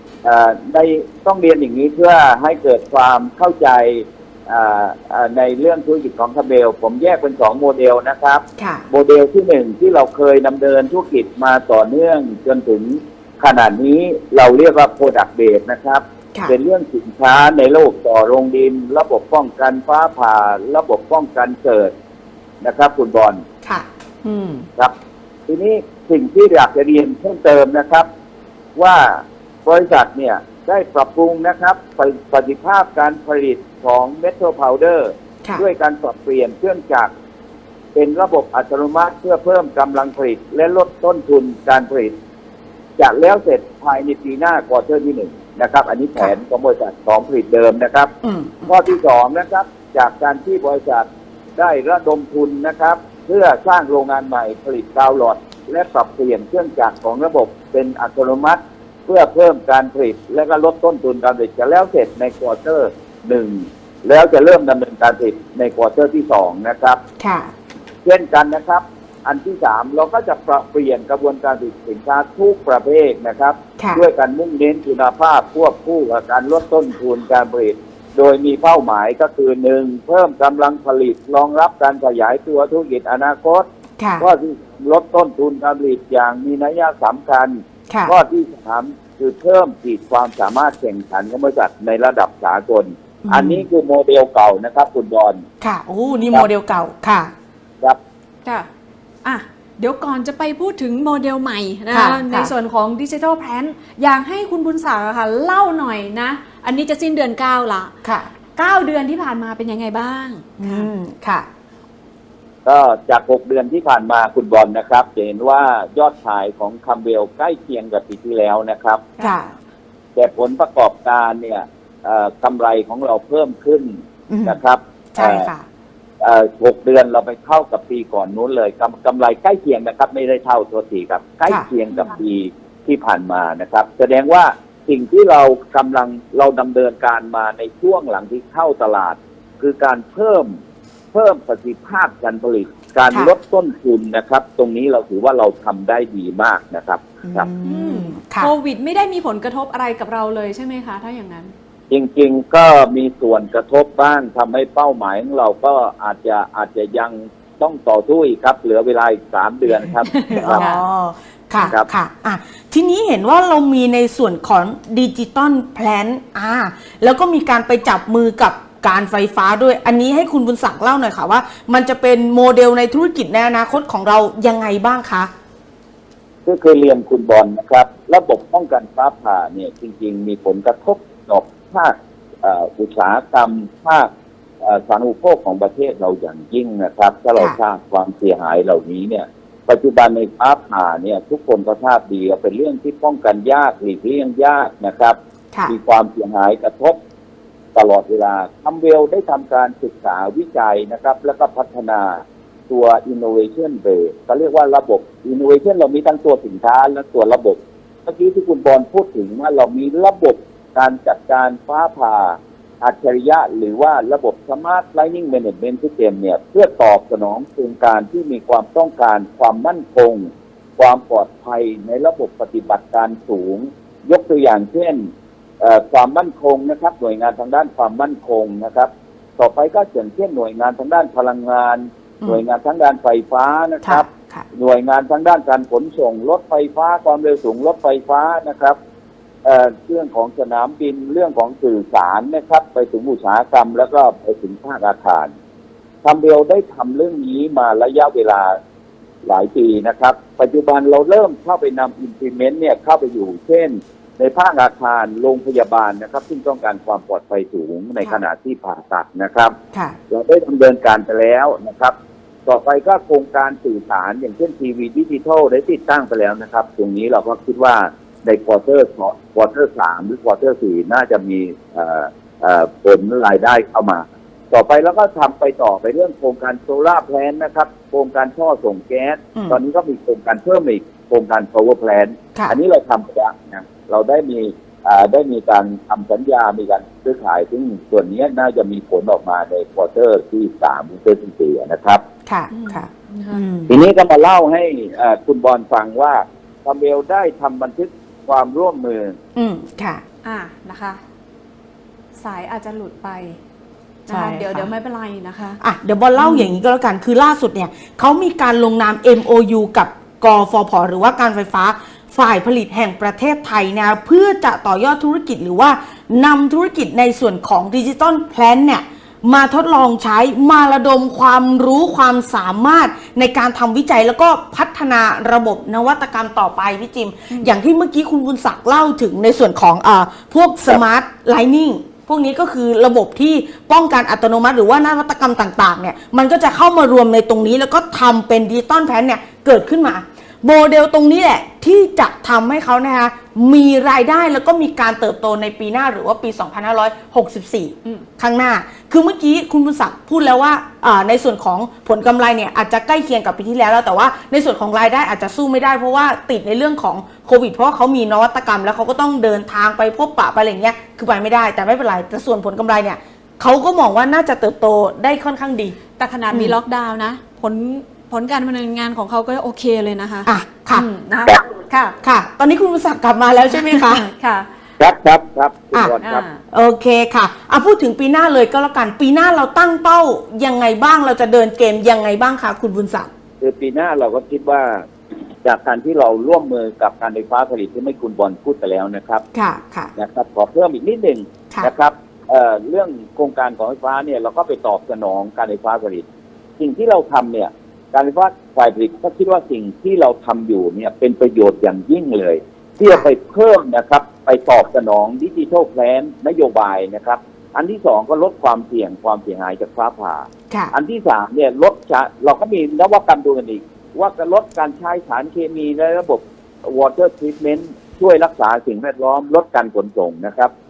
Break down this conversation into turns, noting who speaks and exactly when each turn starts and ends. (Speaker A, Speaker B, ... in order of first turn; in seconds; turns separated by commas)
Speaker A: 0.2-21.9, Speaker B: 8.6-8.9, Speaker A: 22.6-23.4, Speaker C: 24.2-24.7, Speaker A: 25.5-28.1, Speaker A: 28.8-37.1, Speaker A: 38.0-42.1, Speaker A: 43.0-48.1, Speaker B: 48.2-49.0, Speaker A: 48.7-51.1, Speaker A: 51.6-67.0, Speaker B: 67.2-67.5, Speaker A: 68.0-83.7, Speaker B: 73.8-74.0, Speaker B: 84.0-84.3, Speaker A: 84.2-95.4, Speaker B: 93.2-93.7, Speaker B: 95.6-97.3, Speaker C: 96.1-96.3, Speaker C: 99.2-107.9, Speaker B: 101.9-102.5, Speaker B: 108.0-108.3, Speaker C: 108.6-110.9, Speaker B: 110.6-111.5, Speaker A: 112.7-119.0, Speaker B: 119.2-119.5, Speaker A: 120.2-125.5, Speaker B: 124.3-124.6, Speaker B: 125.1-125.7, Speaker A: 126.2-140.6, Speaker A: 141.1-147.5, Speaker B: 147.2-148.5, Speaker C: 147.6-151.5, Speaker A: 151.9-160.7, Speaker C: 160.0-160.8, Speaker B: 160.3-175.3, Speaker A: 176.4-184.1, Speaker A: 184.6-197.0, Speaker A: 197.8-225.1, Speaker A: 225.6-238.8, Speaker B: 233.8-234.5, Speaker A: 239.4-245.3, Speaker A: 246.0-248.6, Speaker A: 249.2-259.6, Speaker A: 260.1-261.9, Speaker A: 262.5-292.0, Speaker B: 292.3-293.7, Speaker C: 292.5-293.4, Speaker A: 293.7-299.2, Speaker B: 299.4-300.0, Speaker C: 300.2-301.0, Speaker C: 302.2-303.4, Speaker C: 304.1-305.6, Speaker B: 304.1-304.7, Speaker B: 305.6-365.8, Speaker C: 306.2-306.6, Speaker C: 327.3-327.6, Speaker C: 366.0-372.0, Speaker B: 366.3-366.6, Speaker B: 370.3-370.9, Speaker B: 372.0-374.1, Speaker C: 373.5-374.5, Speaker A: 374.8-376.2, Speaker C: 376.0-376.4, Speaker B: 376.5-383.1, Speaker A: 383.4-384.9, Speaker A: 385.4-389.2, Speaker B: 389.4-389.9, Speaker A: 390.0-396.1, Speaker A: 396.6-420.5, Speaker B: 402.8-403.1